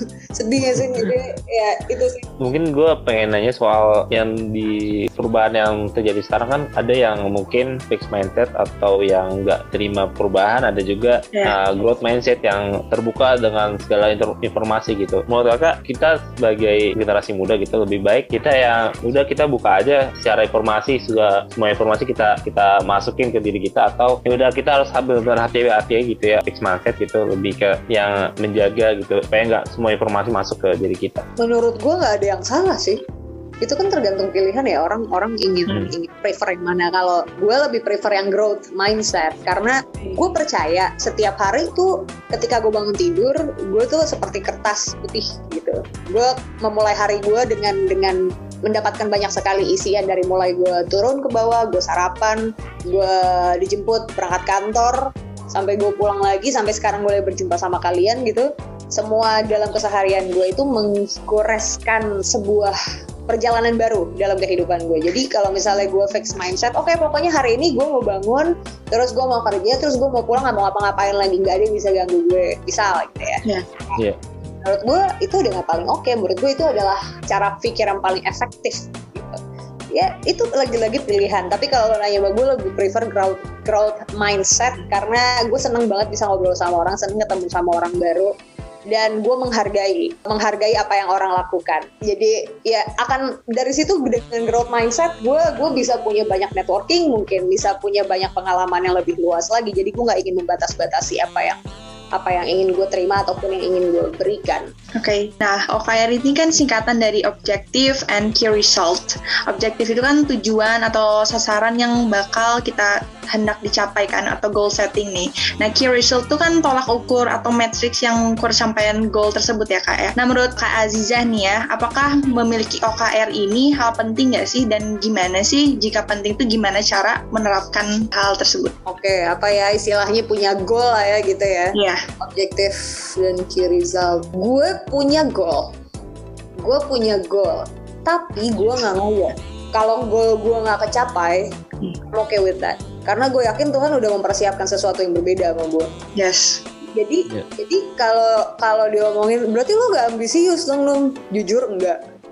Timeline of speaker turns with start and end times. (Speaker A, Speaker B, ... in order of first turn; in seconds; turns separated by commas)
Speaker A: 0.3-2.2, Speaker B: 2.4-31.2, Speaker A: 31.4-33.0, Speaker A: 33.6-62.7, Speaker A: 63.3-74.0, Speaker A: 74.6-79.4, Speaker A: 79.9-88.3, Speaker A: 88.9-101.6, Speaker A: 102.1-104.7, Speaker C: 105.0-128.7, Speaker A: 128.9-135.7, Speaker C: 131.7-132.0, Speaker A: 136.6-141.5, Speaker A: 142.1-145.9, Speaker C: 146.2-146.6, Speaker A: 146.9-152.0